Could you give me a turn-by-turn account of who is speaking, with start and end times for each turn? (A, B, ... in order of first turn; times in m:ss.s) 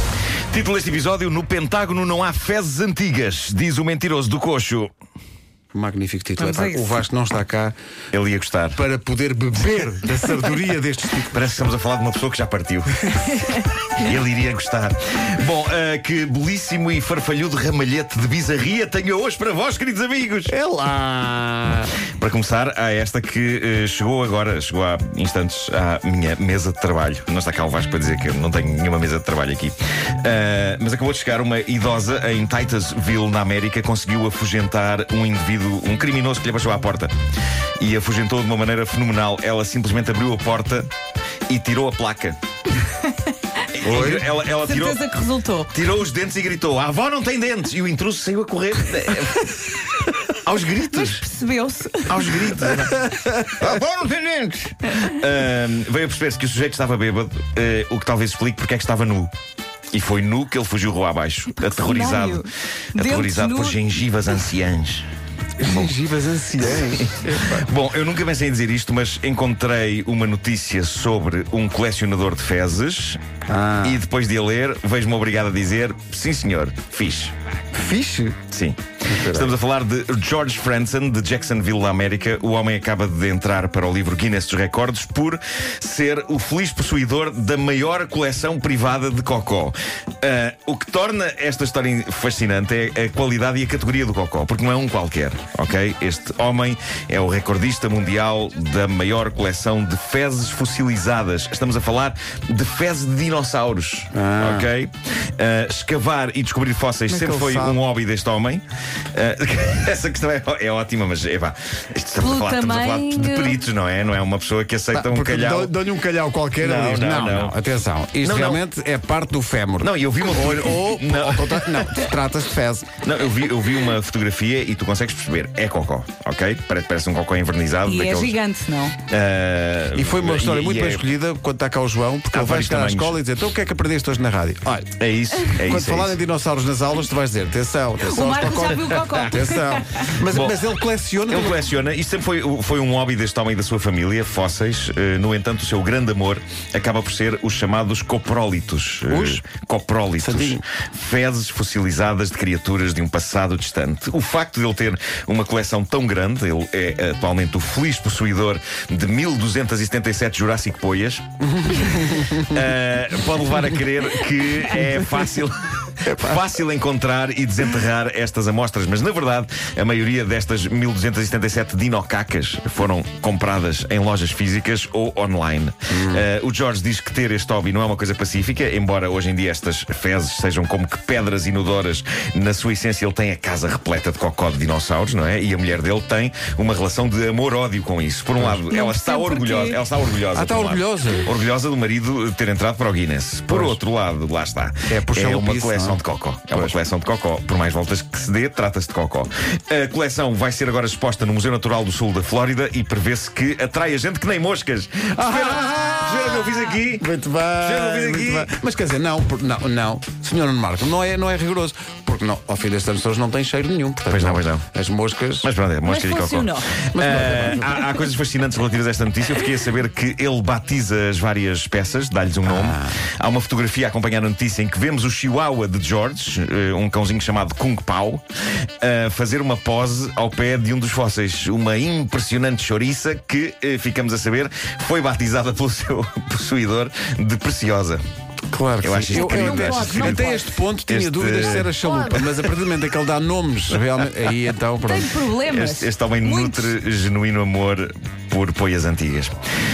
0:00.5-0:04.9 A
0:05.7-0:07.7 B
0:06.4-0:07.0 C
0:08.1-0:08.8 A
0:08.7-0:11.5 B
0:11.3-0:20.5 A
0:20.5-0:21.9 B
0:22.2-0:37.1 A
0:37.8-0:40.9 A
0:41.5-0:42.4 A
0:43.8-0:45.0 A
0:43.8-0:44.3 B
0:44.6-0:45.7 C
0:45.7-0:51.2 A
0:50.9-0:52.4 C
0:52.1-0:59.3 A
0:59.9-1:05.1 A
1:01.6-1:03.8 C
1:05.6-1:07.6 B
1:05.6-1:05.9 A
1:06.7-1:13.2 A
1:13.5-1:14.0 B
1:13.8-1:17.3 A
1:17.7-1:18.4 B
1:18.5-1:55.8 A
1:19.1-1:19.5 B
1:44.1-1:44.7 B
1:47.1-1:47.8 B
1:52.2-1:53.6 C
1:54.9-2:02.9 B
1:56.6-1:57.6 A
1:58.2-1:58.6 A
1:59.8-2:02.1 A
2:03.0-2:08.4 A
2:07.9-2:09.0 C
2:09.1-2:11.1 A
2:10.0-2:14.9 B
2:12.3-2:13.2 A
2:15.0-2:16.2 A
2:15.5-2:21.6 B
2:18.0-2:20.1 C
2:20.3-2:20.6 A
2:21.3-3:27.1 A
2:29.1-2:29.4 B
2:30.2-2:30.6 B
2:41.5-2:42.6 B
2:46.1-2:46.4 B
2:55.9-2:56.2 B
3:08.7-3:09.8 C
3:10.3-3:11.3 B
3:13.5-3:13.8 B
3:14.9-3:16.0 B
3:16.5-3:16.8 B
3:25.2-3:35.5 B
3:27.6-3:28.5 A
3:34.1-3:34.7 A
3:35.4-3:48.2 A
3:35.8-3:36.8 C
3:36.9-3:37.7 B
3:42.4-3:43.0 B
3:48.8-3:58.0 A
3:58.5-4:05.1 B
3:58.8-4:02.4 A
3:59.1-4:00.5 C
4:01.8-4:02.2 C
4:04.8-4:06.7 C
4:05.5-4:09.4 A